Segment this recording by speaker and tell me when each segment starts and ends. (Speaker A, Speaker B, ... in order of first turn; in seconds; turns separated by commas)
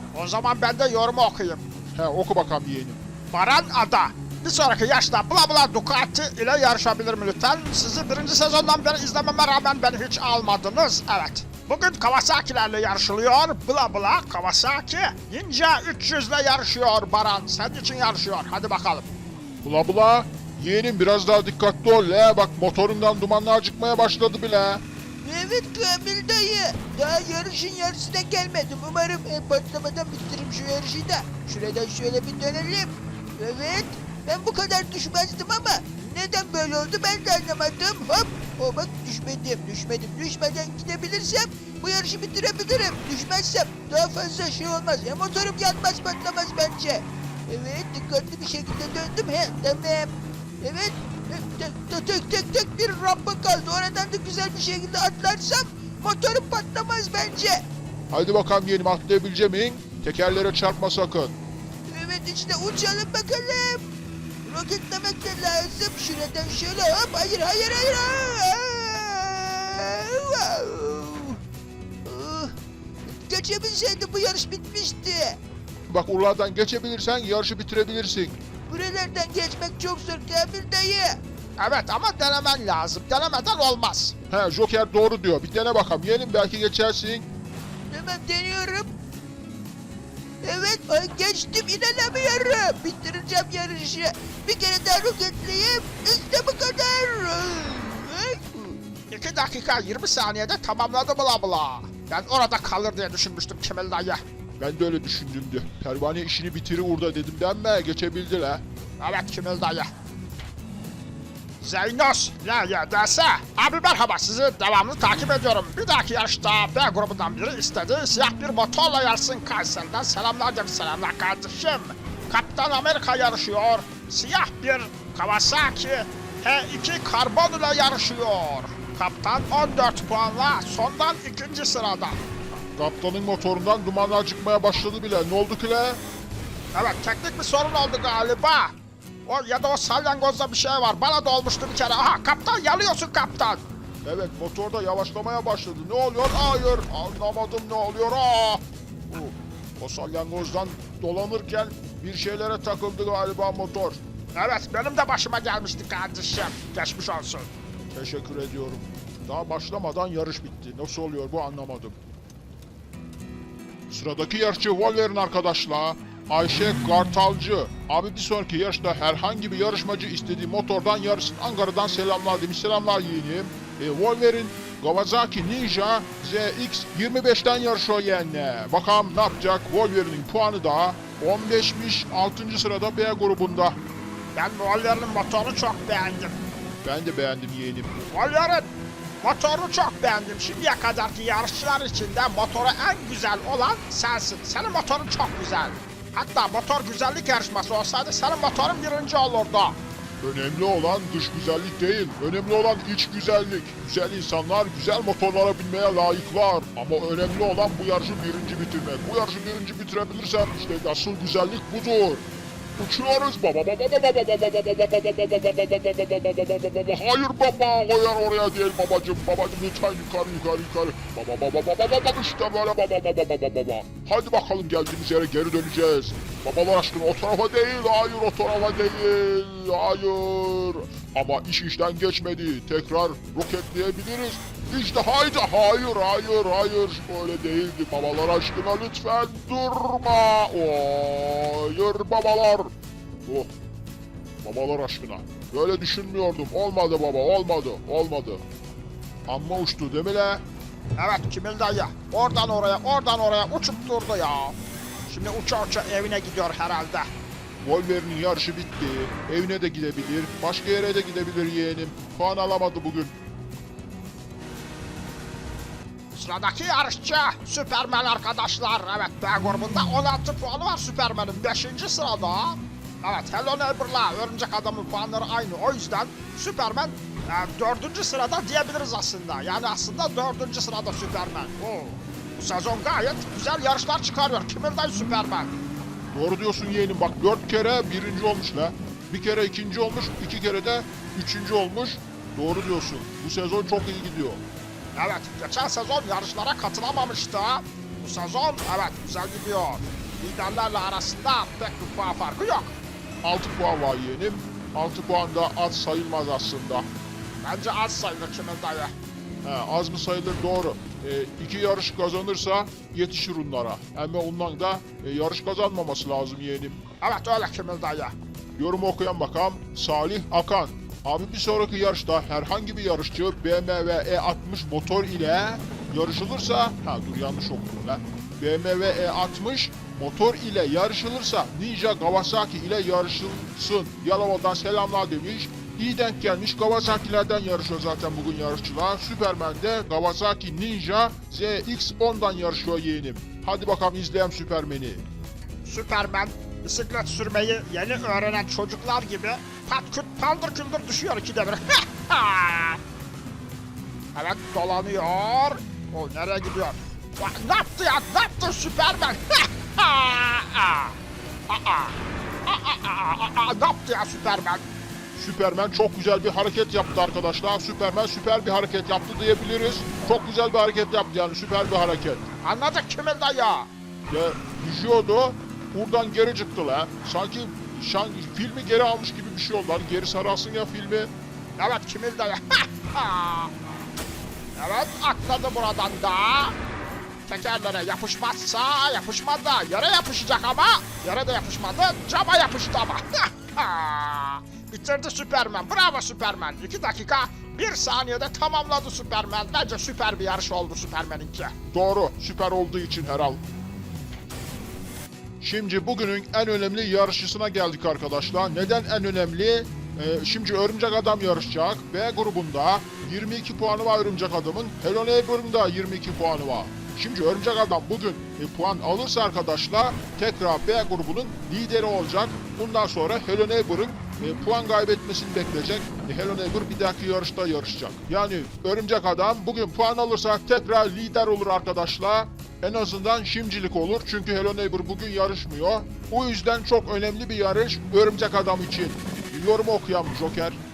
Speaker A: 0.1-1.6, Speaker B: 1.9-3.0, Speaker A: 3.3-19.1, Speaker B: 19.6-24.8, Speaker C: 25.2-57.6, Speaker B: 58.1-61.4, Speaker C: 61.9-63.9, Speaker C: 64.4-71.4, Speaker C: 72.0-75.4, Speaker B: 75.9-78.4, Speaker C: 78.7-81.2, Speaker A: 81.6-84.1, Speaker B: 84.3-87.3, Speaker C: 87.9-88.9, Speaker C: 90.4-98.8, Speaker A: 99.1-104.2, Speaker B: 104.6-108.6, Speaker A: 109.0-109.9, Speaker A: 111.6-132.2, Speaker B: 132.7-136.0, Speaker A: 136.7-143.7, Speaker B: 144.0-154.0, Speaker A: 154.3-157.5, Speaker B: 157.9-162.0, Speaker B: 163.9-183.8, Speaker A: 184.3-186.4, Speaker B: 186.8-188.0, Speaker A: 188.1-199.8, Speaker B: 200.2-242.7, Speaker B: 243.2-243.5, Speaker B: 244.4-248.4, Speaker B: 249.3-250.4, Speaker A: 250.9-254.6, Speaker A: 255.1-257.1, Speaker B: 257.6-263.2, Speaker A: 266.1-285.5, Speaker B: 286.1-294.4, Speaker A: 294.9-302.8, Speaker B: 303.2-306.9, Speaker A: 307.4-308.9, Speaker B: 309.4-316.8, Speaker A: 317.0-318.1, Speaker B: 318.6-345.0, Speaker A: 345.6-352.8, Speaker A: 354.1-364.6, Speaker B: 365.1-372.3, Speaker A: 372.4-373.7, Speaker B: 374.1-381.1, Speaker A: 381.6-383.5, Speaker A: 384.5-386.6, Speaker A: 387.2-401.5, Speaker B: 401.7-403.4, Speaker B: 405.4-440.6